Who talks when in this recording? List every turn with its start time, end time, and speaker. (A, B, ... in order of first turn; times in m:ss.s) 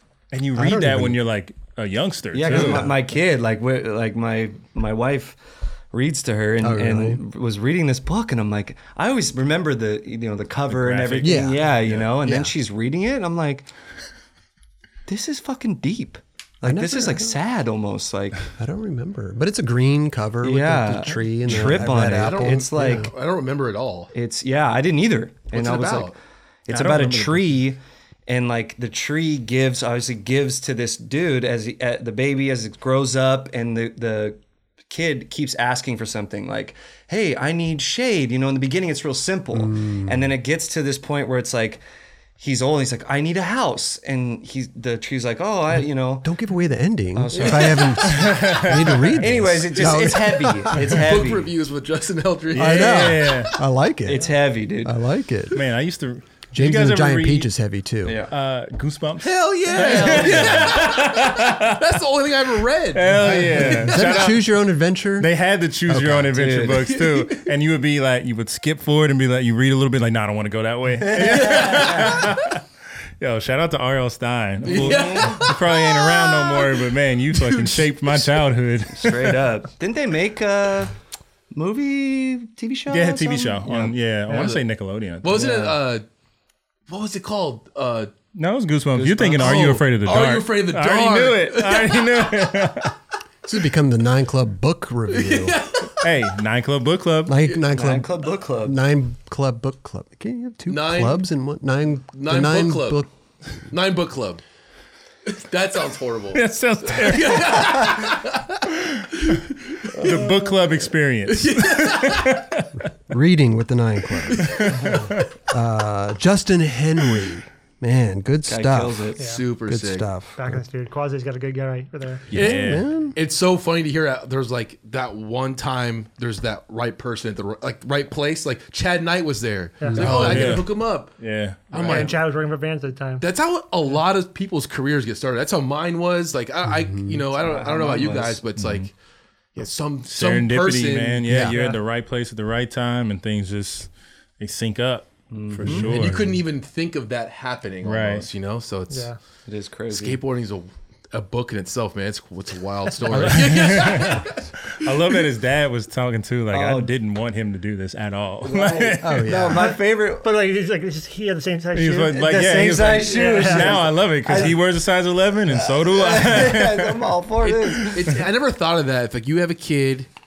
0:00.3-0:02.9 A
0:00.6-0:01.2 B
0:02.3-0:05.4 C
0:02.4-0:03.0 B
0:05.9-0:13.7 C
0:06.6-0:07.2 B
0:10.7-0:12.1 A
0:11.2-0:11.6 B
0:12.2-0:12.5 B
0:15.1-0:18.5 C
0:16.6-0:17.4 B
0:18.6-0:23.1 B
0:20.4-0:23.1 C
0:21.7-0:24.1 D
0:24.1-0:26.1 C
0:25.5-0:26.2 D
0:26.7-0:41.8 C
0:26.7-0:27.6 A
0:39.5-0:40.3 B
0:42.4-0:46.3 C
0:46.2-0:51.0 B
0:47.1-0:48.6 C
0:47.3-0:47.9 D
0:48.0-0:49.3 A
0:49.2-0:51.5 C
0:50.8-0:53.4 D
0:52.5-0:53.6 A
0:52.5-0:55.6 B
0:54.0-0:55.0 C
0:55.5-0:57.5 A
0:56.5-0:58.2 B
0:58.0-0:58.3 C
0:58.3-1:01.8 A
0:59.2-1:04.0 D
0:59.7-1:00.8 C
1:02.9-1:04.4 A
1:03.4-1:03.7 C
1:03.5-1:05.3 B
1:05.2-1:12.6 A
1:05.9-1:06.3 B
1:06.3-1:06.8 C
1:06.8-1:07.4 D
1:11.0-1:12.2 C
1:11.4-1:12.3 D
1:13.2-1:19.5 A
1:14.6-1:18.2 D
1:14.6-1:15.4 C
1:18.9-1:20.9 C
1:21.5-1:23.9 C
1:22.9-1:25.4 A
1:24.3-1:24.6 D
1:25.2-1:26.0 D
1:25.3-1:25.8 C
1:26.9-1:28.1 D
1:28.3-1:33.0 A
1:28.9-1:29.8 C
1:29.4-1:32.5 D
1:33.5-1:35.6 B
1:35.1-1:36.1 D
1:35.9-1:37.4 A
1:37.2-1:43.1 B
1:37.7-1:38.8 C
1:40.7-1:41.2 D
1:42.1-1:43.0 D
1:43.7-1:44.4 D
1:45.2-1:50.4 D
1:46.3-1:48.0 A
1:48.6-1:49.4 A
1:50.0-1:50.5 C
1:50.0-1:52.7 A
1:51.3-1:52.4 D
1:53.1-1:59.1 B
1:54.4-1:55.3 A
1:58.5-1:59.3 C
1:59.2-1:59.4 E
1:59.2-2:00.0 D
1:59.6-2:00.6 B
2:00.4-2:02.2 E
2:02.3-2:02.8 A
2:02.3-2:03.1 B
2:02.3-2:11.1 D
2:09.8-2:10.1 E
2:09.9-2:10.6 B
2:10.0-2:12.1 A
2:11.7-2:12.2 D
2:11.8-2:13.3 E
2:13.2-2:18.9 D
2:16.7-2:17.2 B
2:17.3-2:18.4 C
2:18.6-2:18.9 A
2:19.5-2:21.4 D
2:20.0-2:26.3 A
2:21.3-2:21.6 B
2:21.5-2:21.8 E
2:25.3-2:26.0 C
2:25.6-2:26.3 B
2:25.7-2:29.1 D
2:27.8-2:28.3 A
2:28.9-2:29.2 E
2:29.4-2:30.2 C
2:29.9-2:34.9 D
2:33.1-2:39.4 A
2:36.5-2:36.9 C
2:38.4-2:40.3 C
2:39.0-2:39.8 B
2:39.5-2:43.8 E
2:41.7-2:47.1 A
2:42.2-2:44.6 C
2:45.5-2:48.2 C
2:47.4-2:50.1 D